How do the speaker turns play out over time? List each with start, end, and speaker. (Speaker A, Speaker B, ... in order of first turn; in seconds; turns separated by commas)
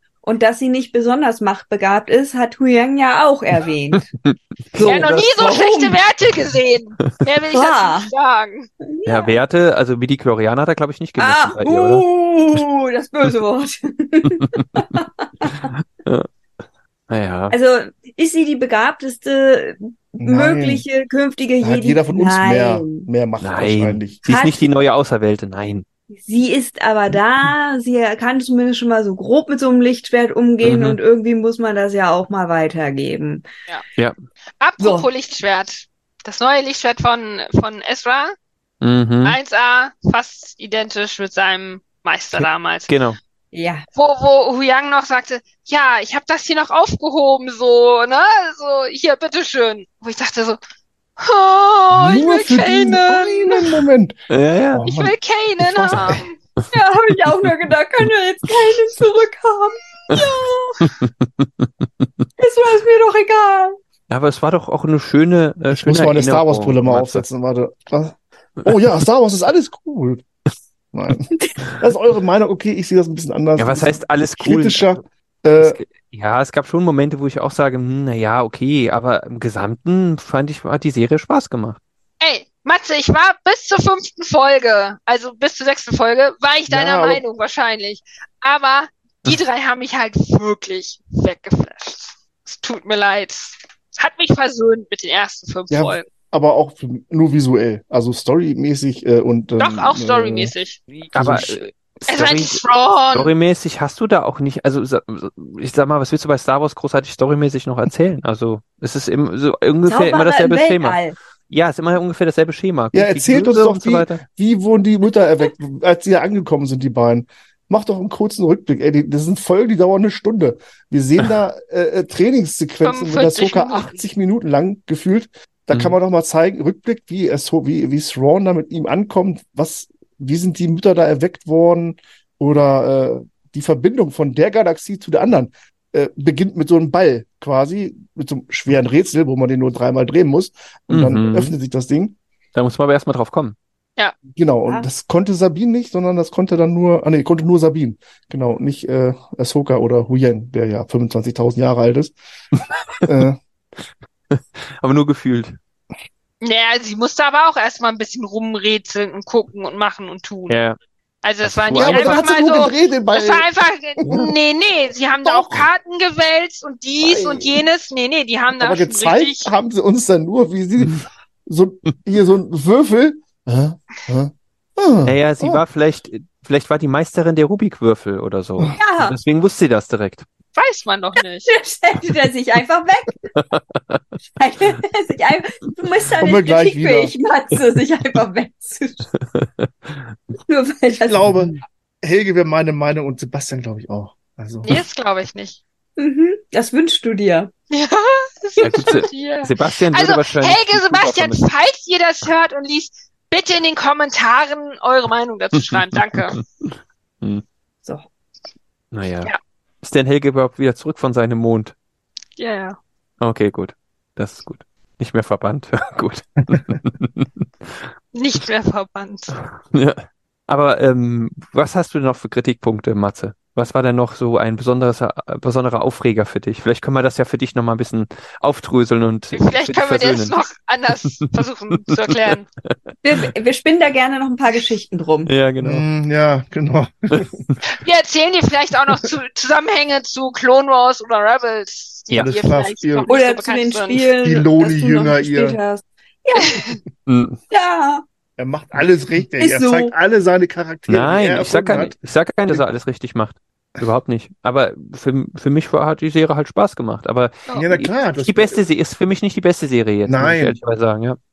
Speaker A: 0.2-4.1, Speaker B: 4.2-5.8, Speaker A: 4.8-5.9, Speaker C: 4.8-8.7, Speaker A: 7.5-8.1, Speaker A: 8.9-9.4, Speaker B: 9.1-12.1, Speaker A: 11.2-15.7, Speaker B: 14.3-16.3, Speaker B: 17.1-17.6, Speaker A: 17.5-23.1, Speaker D: 20.2-20.9, Speaker D: 21.6-24.2, Speaker B: 23.4-25.9, Speaker A: 24.3-24.6, Speaker A: 26.1-33.4, Speaker B: 30.6-31.0, Speaker C: 34.6-38.3, Speaker A: 34.8-35.1, Speaker B: 38.8-39.4, Speaker C: 39.2-42.9, Speaker B: 42.3-43.2, Speaker A: 43.5-43.9, Speaker C: 44.0-50.6, Speaker C: 51.2-53.8, Speaker D: 51.9-54.2, Speaker B: 54.3-55.0, Speaker D: 54.7-56.3, Speaker C: 54.9-56.4, Speaker A: 56.7-60.9, Speaker B: 60.8-62.3, Speaker A: 62.4-63.8, Speaker B: 64.1-67.2, Speaker D: 65.7-70.2, Speaker D: 70.9-75.8, Speaker B: 73.6-75.0, Speaker B: 75.6-81.8, Speaker C: 82.2-96.0, Speaker D: 86.7-87.2, Speaker D: 95.7-100.5, Speaker C: 99.6-100.8, Speaker B: 101.1-102.6, Speaker D: 101.1-101.6, Speaker C: 102.1-103.3, Speaker B: 103.1-114.2, Speaker A: 109.9-111.2, Speaker D: 112.9-142.2, Speaker C: 122.8-124.0, Speaker B: 140.9-141.5, Speaker B: 142.6-143.6, Speaker D: 144.3-152.1, Speaker D: 153.1-153.4, Speaker B: 154.3-155.6, Speaker C: 156.4-160.6, Speaker B: 160.5-160.8, Speaker C: 161.2-169.5, Speaker B: 161.4-162.3, Speaker D: 161.7-163.5, Speaker D: 164.0-164.3, Speaker B: 164.1-164.3, Speaker D: 165.2-165.7, Speaker D: 167.0-167.6, Speaker D: 168.5-175.6, Speaker B: 175.1-180.3, Speaker A: 178.7-179.2, Speaker C: 180.6-181.5, Speaker A: 181.5-183.3, Speaker B: 183.3-184.0, Speaker A: 184.4-189.1, Speaker D: 186.2-187.1, Speaker B: 189.3-190.1, Speaker A: 190.5-191.3, Speaker D: 191.0-194.8, Speaker C: 194.6-195.6, Speaker A: 196.0-197.5, Speaker C: 197.7-206.4, Speaker B: 198.6-201.4, Speaker B: 208.9-211.7, Speaker C: 212.4-212.8, Speaker B: 213.2-217.9, Speaker C: 218.1-219.3, Speaker B: 219.6-230.4, Speaker C: 229.3-232.4, Speaker B: 231.9-232.7, Speaker A: 233.0-235.3, Speaker B: 235.3-235.8, Speaker D: 235.6-237.4, Speaker B: 237.1-237.6, Speaker C: 237.7-244.1, Speaker D: 242.2-243.1, Speaker A: 243.1-246.8, Speaker D: 244.2-245.6, Speaker B: 247.1-247.4, Speaker A: 247.5-248.0, Speaker D: 248.4-252.7, Speaker A: 249.4-249.9, Speaker B: 250.9-261.2, Speaker D: 257.5-258.6, Speaker D: 260.1-260.6